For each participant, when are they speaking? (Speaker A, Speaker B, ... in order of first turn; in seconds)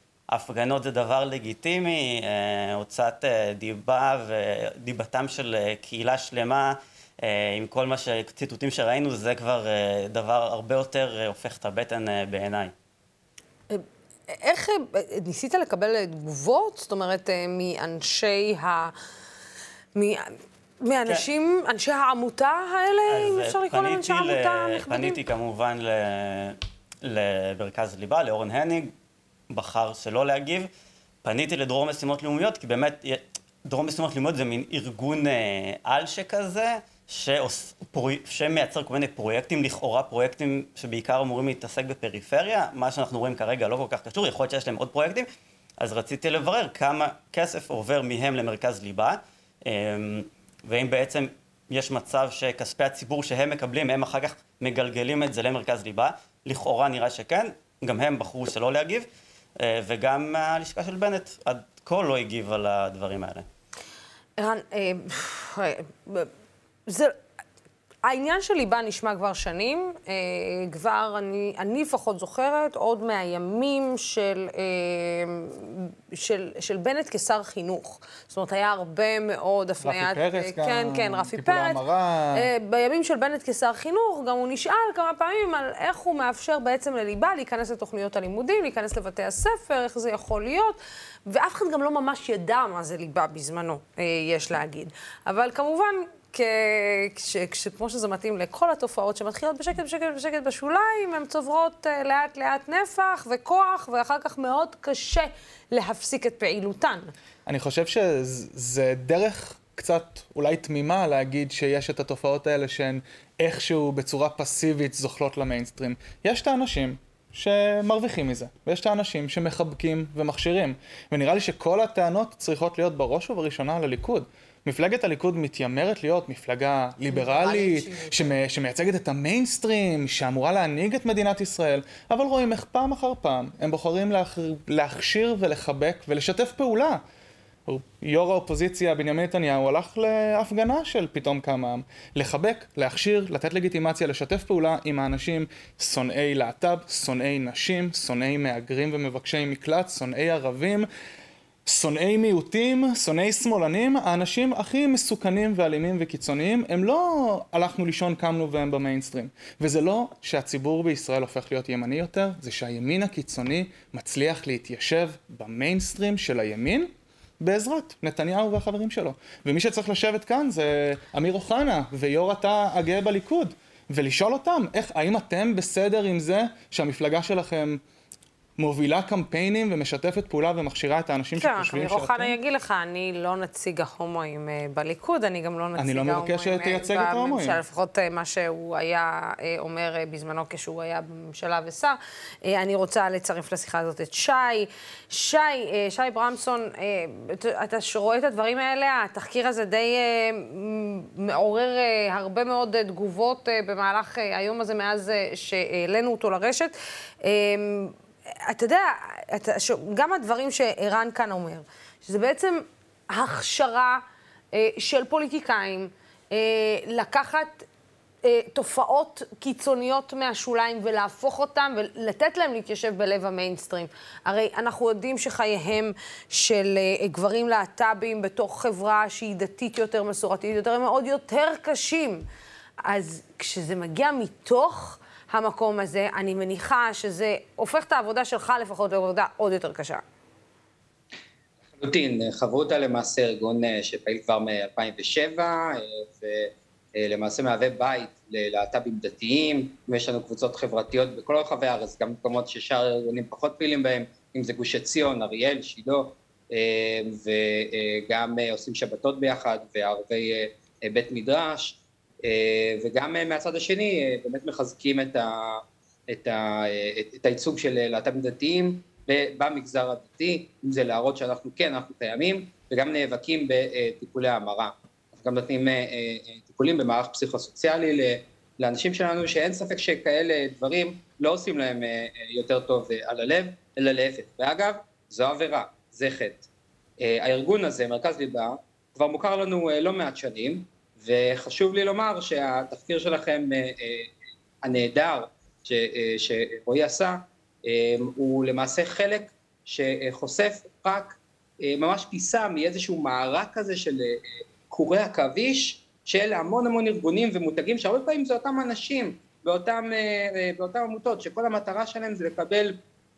Speaker A: 0.3-12.7, 23.1-28.9, 29.5-30.7, 31.2-45.3, 45.8-59.1, 59.6-63.5
Speaker B: 13.7-18.9, 19.9-25.2, 64.4-66.3, 66.9-67.2, 68.0-81.8, 82.3-107.1, 127.1-128.1, 181.4-214.0, 214.5-217.6, 218.2-232.2, 232.8-240.0
Speaker C: 79.8-82.5, 107.5-137.0, 137.7-150.9, 151.7-177.8, 178.6-182.3, 185.8-187.6
Speaker D: 241.8-286.5, 287.0-312.8